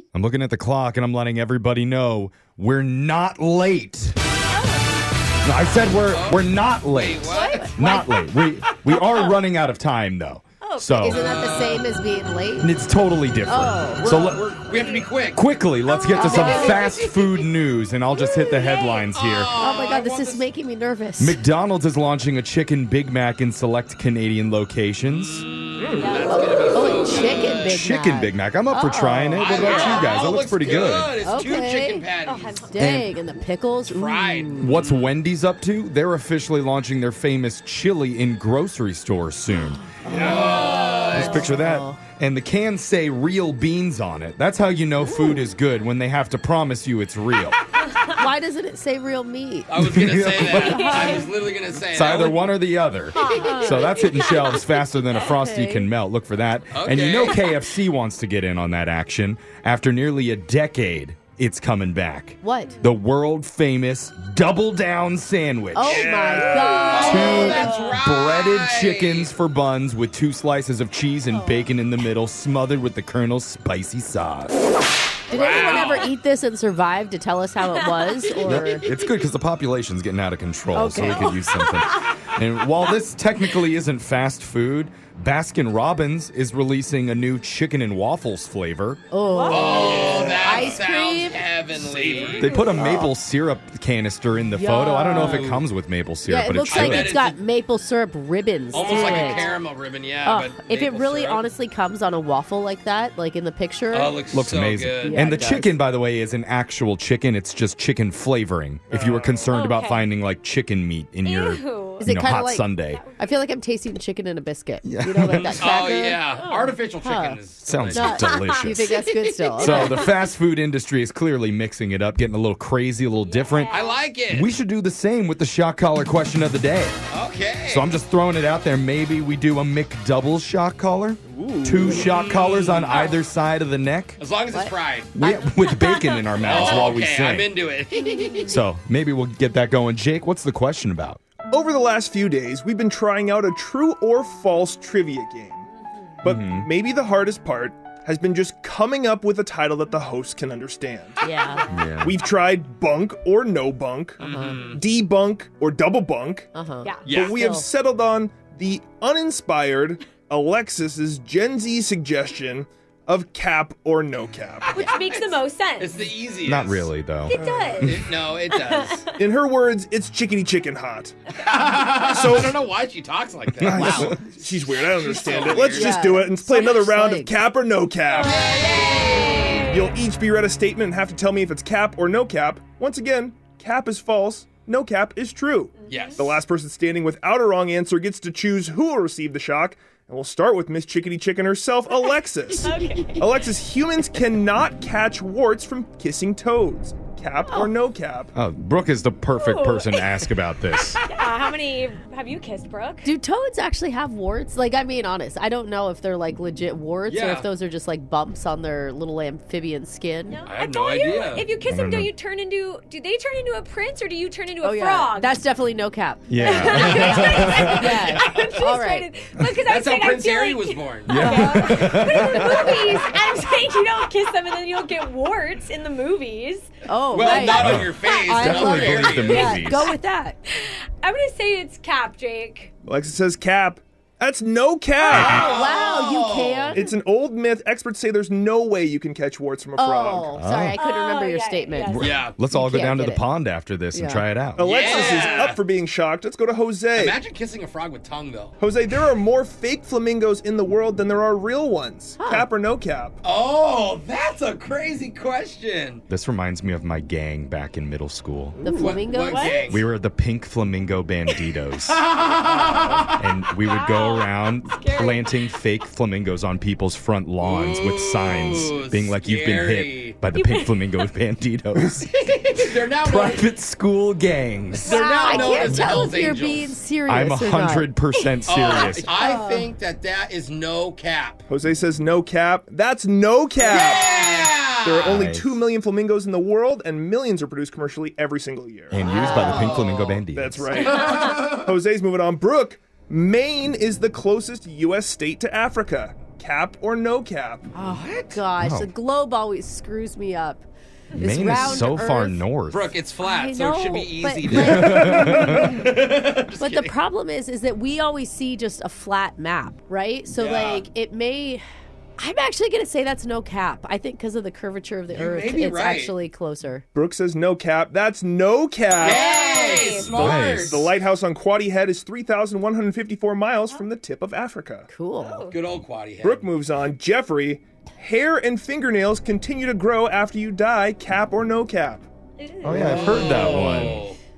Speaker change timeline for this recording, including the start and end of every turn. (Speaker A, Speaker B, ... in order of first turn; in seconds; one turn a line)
Speaker A: 0.1-4.2
Speaker B: 4.5-4.9
Speaker A: 5.4-11.3
Speaker C: 6.1-7.8
Speaker D: 7.3-8.1
Speaker B: 8.9-9.4
Speaker B: 10.6-11.1
Speaker D: 10.9-12.7
Speaker C: 11.2-11.8
Speaker A: 12.6-14.7
Speaker D: 13.5-14.1
Speaker C: 14.0-15.4
Speaker B: 14.7-15.1
Speaker A: 15.3-19.5
Speaker B: 15.9-17.3
Speaker C: 16.1-17.1
Speaker D: 16.1-16.8
Speaker C: 18.4-20.5
Speaker D: 19.6-21.4
Speaker A: 21.2-25.5
Speaker C: 25.3-27.8
Speaker B: 26.0-27.5
Speaker D: 26.3-30.0
Speaker A: 27.6-31.2
Speaker C: 29.4-32.6
Speaker D: 31.2-32.1
Speaker B: 32.3-32.8
Speaker D: 32.6-34.8
Speaker A: 32.8-33.1
Speaker C: 33.9-35.1
Speaker A: 34.6-47.6
Speaker D: 39.8-42.0
Speaker C: 40.1-41.5
Speaker D: 45.1-45.4
Speaker D: 48.2-49.7
Speaker C: 49.7-52.5
Speaker A: 49.8-51.0
Speaker D: 50.4-51.2
Speaker B: 50.7-51.3
Speaker A: 51.9-66.1
Speaker B: 53.2-54.5
Speaker D: 53.4-54.0
Speaker D: 55.3-55.9
Speaker C: 56.7-57.4
Speaker D: 62.4-62.8
Speaker D: 65.7-67.7
Speaker C: 65.9-69.3
Speaker E: 66.0-66.9
Speaker A: 67.0-74.7
Speaker B: 67.0-68.0
Speaker C: 75.3-76.1
Speaker D: 75.3-78.9
Speaker B: 75.5-75.9
Speaker B: 77.7-78.4
Speaker A: 78.4-89.0
Speaker D: 80.7-81.4
Speaker D: 89.1-91.5
Speaker B: 89.3-90.3
Speaker C: 89.5-93.0
Speaker E: 92.0-92.4
Speaker A: 92.4-97.2
Speaker B: 92.4-92.9
Speaker D: 94.5-95.5
Speaker C: 95.2-95.6
Speaker D: 96.3-99.5
Speaker C: 96.7-97.4
Speaker C: 98.7-101.4
Speaker B: 98.7-99.6
Speaker D: 100.2-104.2
Speaker C: 103.9-105.4
Speaker A: 104.3-113.0
Speaker D: 105.0-105.8
Speaker E: 108.9-109.5
Speaker B: 109.5-110.1
Speaker B: 111.2-112.1
Speaker D: 112.0-120.0
Speaker B: 112.9-113.3
Speaker A: 114.8-115.8
Speaker C: 115.6-118.3
Speaker B: 116.4-116.7
Speaker A: 117.6-118.9
Speaker B: 118.3-120.1
Speaker A: 119.6-127.0
Speaker B: 123.2-124.0
Speaker C: 123.7-124.5
Speaker C: 127.1-127.9
Speaker A: 127.7-134.2
Speaker E: 131.3-132.3
Speaker C: 131.8-133.2
Speaker C: 134.2-135.1
Speaker A: 135.2-137.6
Speaker B: 135.2-136.3
Speaker C: 136.4-138.5
Speaker A: 138.4-141.2
Speaker E: 141.5-145.7
Speaker E: 146.2-151.2
Speaker A: 146.2-146.7
Speaker D: 151.2-151.7
Speaker A: 151.7-152.2
Speaker E: 152.0-156.5
Speaker D: 154.2-154.6
Speaker C: 154.2-154.8
Speaker D: 156.5-157.7
Speaker B: 156.8-157.2
Speaker C: 157.1-157.4
Speaker E: 157.1-164.8
Speaker C: 164.7-166.9
Speaker B: 164.8-166.1
Speaker A: 166.4-168.1
Speaker B: 167.3-167.9
Speaker E: 167.4-167.7
Speaker C: 167.8-169.1
Speaker B: 168.5-169.2
Speaker E: 169.2-171.2
Speaker C: 171.4-176.1
Speaker E: 172.0-172.6
Speaker A: 173.6-174.2
Speaker E: 173.6-178.6
Speaker D: 175.7-177.4
Speaker B: 178.1-179.9
Speaker C: 178.2-179.7
Speaker E: 179.6-198.3
Speaker B: 185.8-186.3
Speaker C: 185.9-186.4
Speaker B: 192.5-193.5
Speaker A: 198.3-201.0
Speaker B: 199.4-200.2
Speaker B: 201.0-203.1
Speaker D: 203.0-210.4
Speaker C: 207.1-207.5
Speaker B: 210.3-215.4
Speaker C: 210.5-211.5
Speaker A: 211.7-212.1
Speaker D: 214.6-219.1
Speaker A: 216.3-217.9
Speaker B: 216.4-226.7
Speaker C: 216.9-218.6
Speaker C: 219.6-222.1
Speaker A: 221.1-222.9
Speaker D: 221.1-221.3
Speaker D: 226.9-230.4
Speaker C: 227.1-229.7
Speaker B: 227.2-229.9
Speaker A: 227.4-229.9
Speaker B: 230.5-232.7
Speaker E: 232.9-235.5
Speaker D: 235.0-236.9
Speaker C: 235.1-236.8
Speaker E: 236.7-240.4
Speaker D: 239.8-243.2
Speaker A: 240.4-240.8
Speaker B: 240.8-242.2
Speaker A: 241.9-244.7
Speaker C: 241.9-242.3
Speaker D: 243.9-244.2
Speaker E: 244.6-247.2
Speaker C: 244.6-245.6
Speaker D: 244.9-245.3
Speaker B: 244.9-245.4
Speaker C: 246.9-248.6
Speaker E: 248.6-253.2
Speaker D: 252.2-252.5
Speaker C: 253.2-256.0
Speaker A: 256.1-258.6
Speaker D: 258.6-259.6
Speaker C: 258.7-259.8
Speaker B: 258.8-259.8
Speaker A: 259.7-262.1
Speaker C: 261.9-263.3
Speaker A: 263.0-275.0
Speaker B: 263.6-265.2
Speaker C: 267.4-270.2
Speaker B: 270.3-270.8
Speaker C: 272.2-273.5
Speaker C: 274.8-276.8
Speaker D: 274.9-277.9
Speaker B: 275.1-275.7
Speaker A: 275.6-276.1
Speaker A: 277.1-279.1
Speaker C: 278.5-281.4
Speaker D: 279.1-279.7
Speaker E: 281.5-289.0
Speaker C: 283.6-285.1
Speaker A: 285.0-285.6
Speaker A: 288.9-290.9
Speaker C: 289.0-291.7
Speaker D: 289.1-289.7
Speaker E: 290.4-297.7
Speaker B: 291.0-291.5
Speaker D: 297.7-302.4
Speaker A: 298.6-298.9
Speaker A: 301.2-302.9
Speaker C: 302.7-307.0
Speaker D: 303.2-305.9
Speaker A: 304.5-305.9
Speaker D: 306.6-311.6
Speaker C: 310.4-310.9
Speaker D: 312.2-316.9
Speaker C: 315.1-316.1
Speaker E: 316.9-319.4
Speaker C: 319.0-320.9
Speaker B: 319.0-320.1
Speaker D: 319.4-319.8
Speaker A: 320.0-320.9
Speaker E: 320.1-324.9
Speaker D: 324.9-325.5
Speaker B: 325.2-325.6
Speaker C: 325.5-326.5
Speaker E: 326.2-332.1
Speaker B: 332.4-333.9
Speaker A: 332.6-334.0
Speaker C: 332.7-334.2